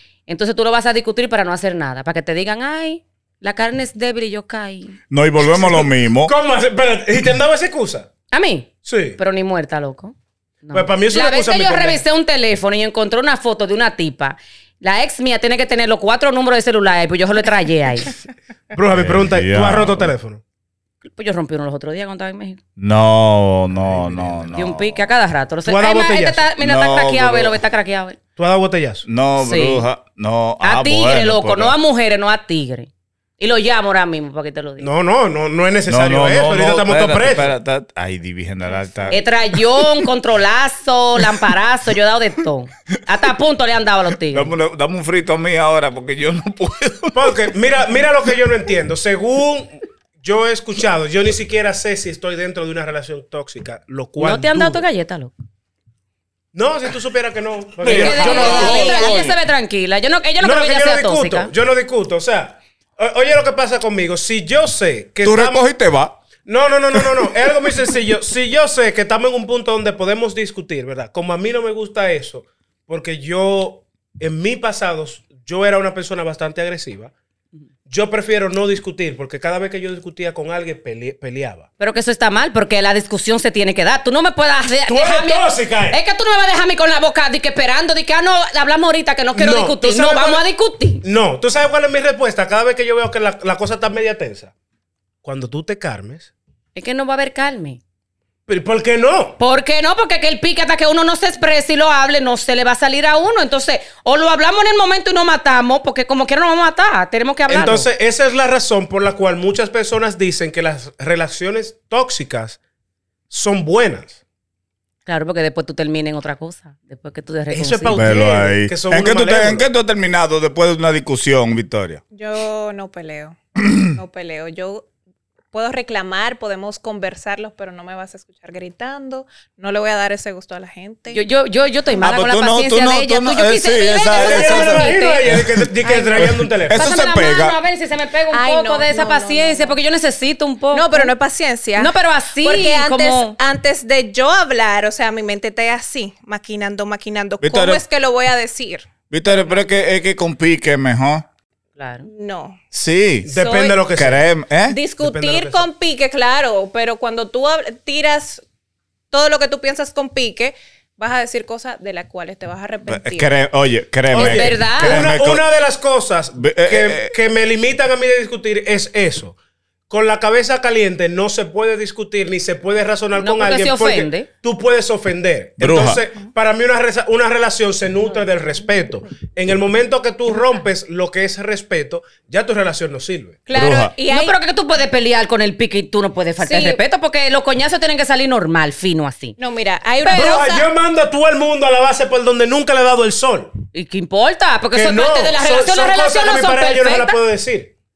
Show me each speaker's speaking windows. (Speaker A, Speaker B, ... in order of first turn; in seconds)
Speaker A: 0.3-5.0, 8.3-18.1, 21.1-22.6, 24.6-28.2, 29.4-29.8, 30.6-34.9, 39.1-44.5, 54.2-55.3, 57.8-61.5, 81.8-91.0, 96.8-97.8, 99.4-107.9, 115.1-118.0, 131.1-135.2, 136.7-141.1, 141.8-143.4, 151.8-152.1, 164.1-165.1, 173.2-174.3, 184.1-189.4, 193.7-197.2
Speaker B: 5.1-6.3, 18.9-20.1, 22.8-25.1, 26.6-27.6, 29.1-31.8, 35.9-39.9, 44.3-47.4, 57.9-59.4, 65.2-66.2, 117.9-122.0, 132.0-135.6, 136.2-137.6, 147.4-147.8, 149.1-151.2, 152.7-153.3, 153.9-154.8, 162.9-165.4, 166.4-167.2, 175.6-176.0, 183.5-183.9
Speaker C: 5.5-8.1, 8.8-9.2, 10.7-12.0, 18.7-20.4, 23.7-24.6, 25.7-26.5, 28.4-29.1, 34.8-37.5, 47.1-54.8, 56.5-59.1, 60.4-65.6, 66.5-77.1, 77.9-81.7, 84.9-86.0, 89.4-90.4, 91.0-94.5, 95.2-96.3, 98.5-99.4, 107.5-112.6, 113.3-114.2, 117.5-119.7, 134.2-136.8, 153.3-154.3, 155.0-155.7, 164.1-169.4, 169.9-183.4, 190.1-193.5, 194.7-197.7
Speaker D: 58.2-59.2, 122.1-124.9, 125.5-131.2, 135.9-136.3, 138.3-139.8, 140.7-148.9, 152.1-152.6, 153.2-153.8, 154.7-158.4, 159.1-163.3, 183.5-184.4, 186.4-186.8, 189.4-190.7